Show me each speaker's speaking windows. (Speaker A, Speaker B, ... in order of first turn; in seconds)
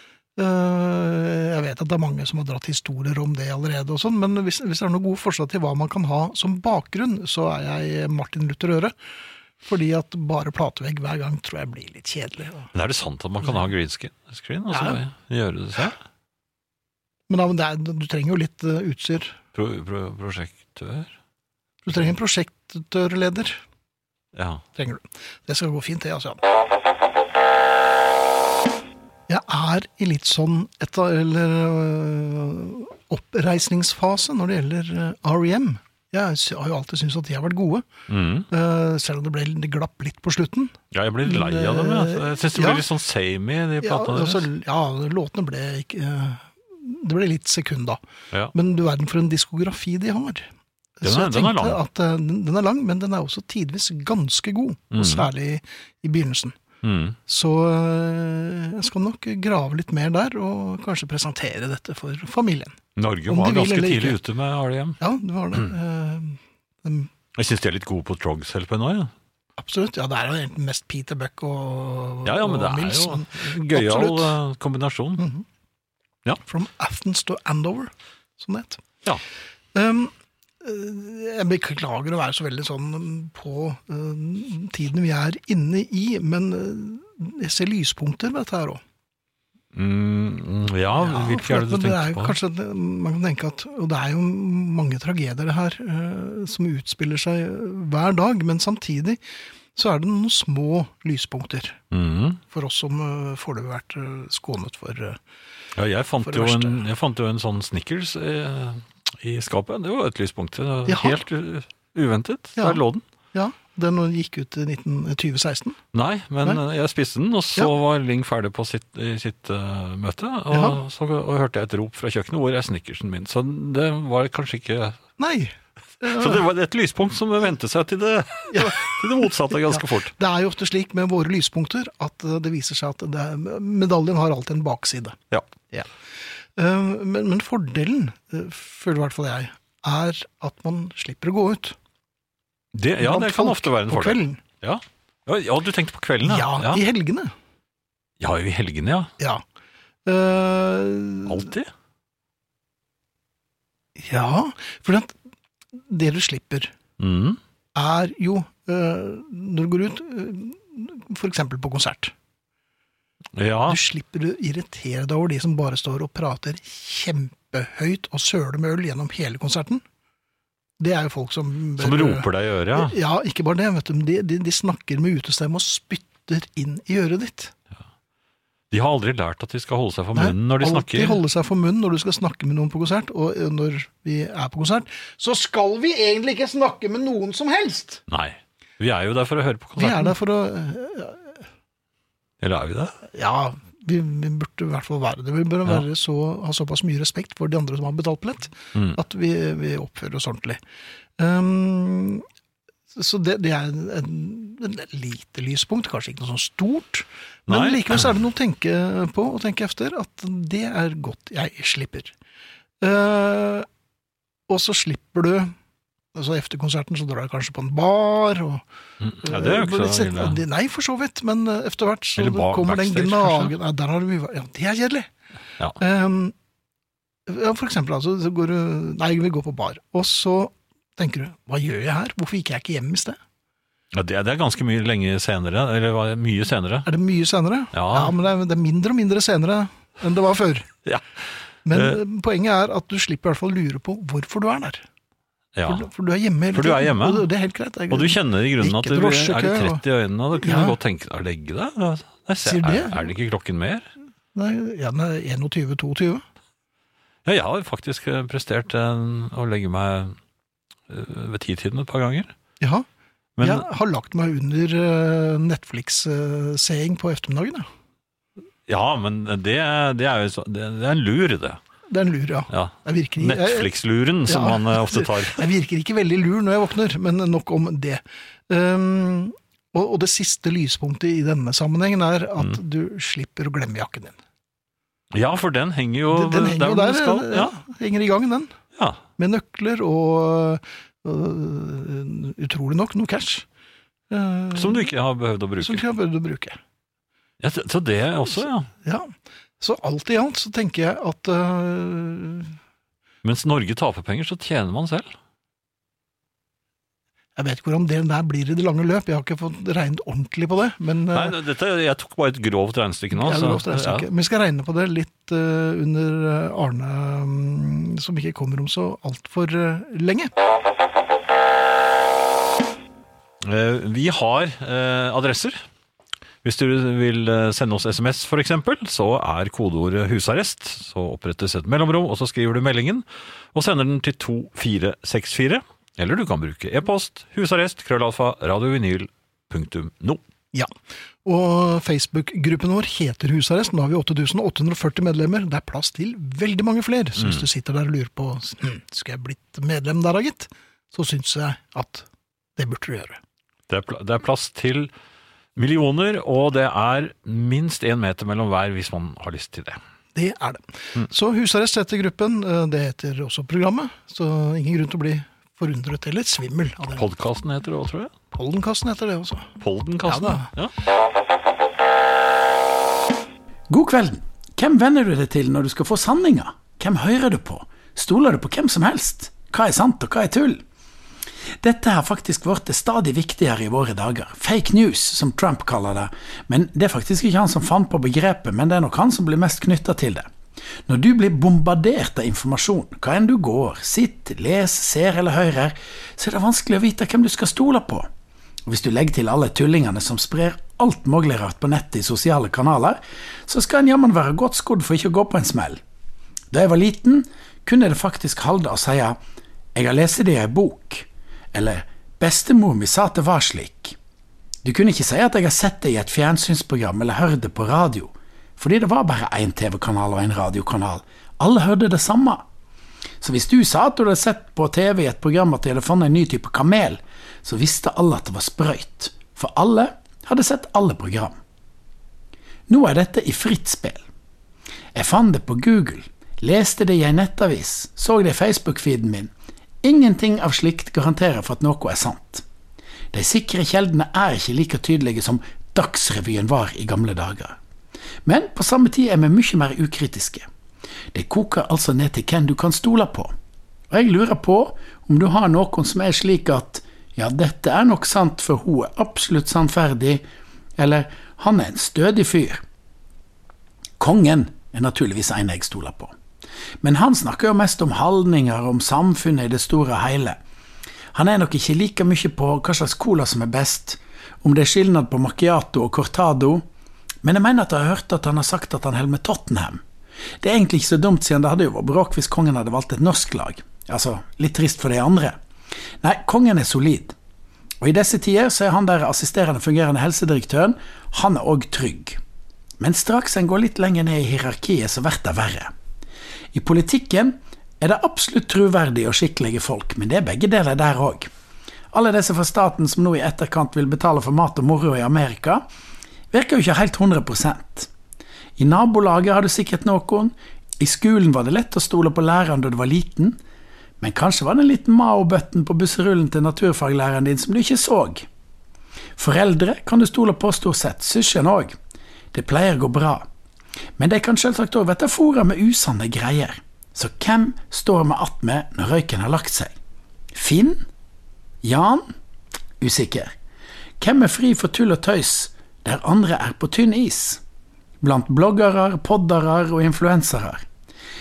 Speaker A: 0.4-8.9, 9.6-12.7, 14.7-15.0, 17.3-19.4, 21.9-23.6, 24.8-26.4, 29.3-37.8, 38.5-42.9, 43.8-48.0, 48.5-50.5, 51.0-56.5, 57.3-62.8, 63.3-64.2, 65.0-67.1, 69.6-74.4, 75.2-75.5, 76.5-78.8, 79.7-88.8, 91.0-99.2, 99.8-101.8, 102.5-105.2, 106.2-106.8, 110.9-111.2, 112.6-112.8, 113.3-115.8, 120.5-120.8, 125.2-126.4, 128.5-135.2, 136.6-141.8, 143.0-144.4, 146.2-147.3, 150.1-151.5, 154.0-155.1, 155.7-156.7, 157.8-162.1, 163.7-169.8, 170.8-177.5, 180.2-188.0, 189.8-191.4, 193.1-200.6, 201.2-202.2, 202.9-212.1, 212.8-213.7, 214.5-215.5, 216.2-218.6, 219.2-225.1, 225.8-226.3, 227.3-233.2, 236.9-240.7, 241.7-244.8, 245.6-249.8, 250.3-250.8, 252.4-253.1, 254.3-256.2, 262.6-262.9, 263.4-267.7, 271.9-273.7, 274.2-284.2, 286.1-288.5, 289.2-293.4, 294.1-294.9, 295.6-296.6, 298.8-302.6, 307.4-311.4, 313.1-320.3, 341.2-352.1, 352.6-353.2, 360.1-367.1, 368.3-369.5, 370.1-370.5
Speaker B: 12.7-16.0, 19.6-21.1, 24.4-24.6, 38.1-38.5, 40.9-44.5, 51.0-51.8, 54.9-55.3, 56.8-57.2, 63.0-65.0, 67.3-69.1, 72.2-75.2, 89.7-92.4, 101.9-102.4, 105.8-113.0, 115.9-125.0, 126.0-130.1, 142.7-146.8, 148.2-149.1, 151.3-151.7, 157.0-157.4, 163.3-163.8, 171.8-172.9, 178.7-181.2, 188.1-190.2, 192.4-193.0, 207.5-208.0, 219.0-220.4, 222.2-223.6, 233.9-236.9, 237.7-238.2, 241.7-242.0, 245.6-245.9, 246.5-247.3, 247.9-253.9, 257.2-260.1, 260.9-262.3, 263.4-263.7, 268.7-271.6, 272.5-275.4, 285.1-287.5, 288.8-289.0, 294.6-295.9, 297.4-298.7, 303.2-305.1, 311.1-314.1, 323.4-325.6, 326.4-340.2, 347.2-347.5, 353.7-354.9, 355.6-359.8, 366.9-368.1, 369.6-370.7
Speaker C: 373.7-380.6, 381.6-390.3, 390.9-398.1, 398.7-405.8, 406.5-409.2, 409.8-414.0, 414.6-422.4, 423.2-431.4, 432.7-434.0, 434.9-439.3, 439.8-442.4, 443.1-447.6, 448.2-450.5, 451.1-453.3, 453.9-460.2, 460.8-462.6, 464.0-466.1, 466.8-470.4, 471.1-476.6, 477.2-479.8, 480.4-485.4, 486.0-487.1, 487.8-492.2, 492.8-495.7, 496.5-501.3, 501.9-505.6, 506.3-507.9, 508.6-513.4, 514.0-518.3, 519.2-521.8, 522.3-523.3, 524.0-529.7, 530.3-530.9, 531.6-532.1, 532.8-533.3, 534.0-537.4, 538.0-540.6